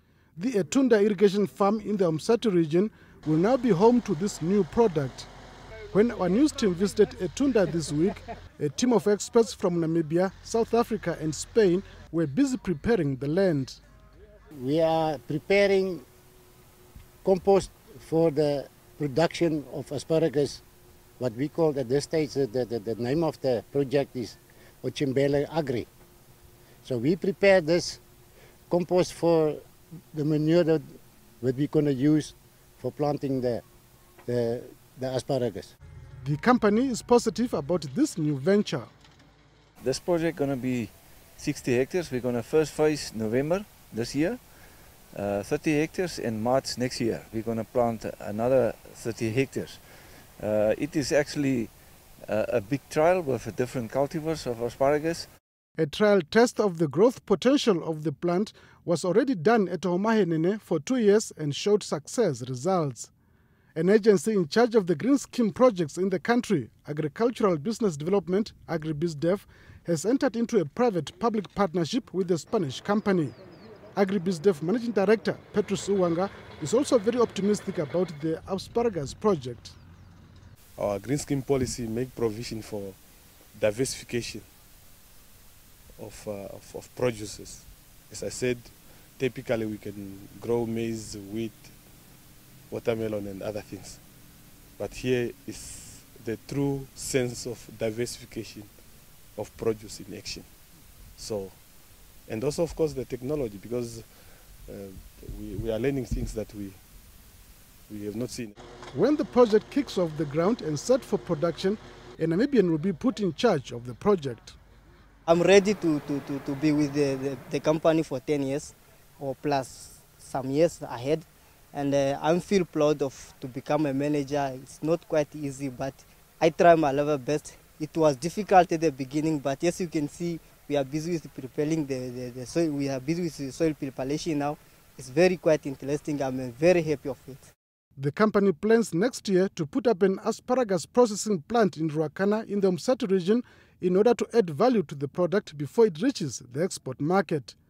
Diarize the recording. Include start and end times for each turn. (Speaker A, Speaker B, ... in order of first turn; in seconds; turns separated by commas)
Speaker A: 0.4-5.3, Speaker A: 5.9-13.8, Speaker B: 14.6-16.0, Speaker B: 17.2-20.6, Speaker B: 21.2-25.9, Speaker B: 26.8-28.0, Speaker B: 28.7-29.6, Speaker B: 30.1-33.6, Speaker B: 34.2-35.7, Speaker A: 36.2-38.9, Speaker C: 39.8-44.4, Speaker C: 45.1-49.8, Speaker C: 50.4-51.7, Speaker C: 52.3-55.3, Speaker A: 55.8-63.1, Speaker A: 63.7-73.3, Speaker A: 73.9-79.8, Speaker D: 80.8-83.0, Speaker D: 83.5-84.5, Speaker D: 86.0-91.8, Speaker D: 92.7-94.0, Speaker D: 94.8-98.7, Speaker D: 99.3-100.5, Speaker D: 101.2-101.6, Speaker D: 102.2-106.8, Speaker D: 107.9-108.5, Speaker A: 108.9-114.6, Speaker E: 115.3-137.5, Speaker A: 138.0-147.6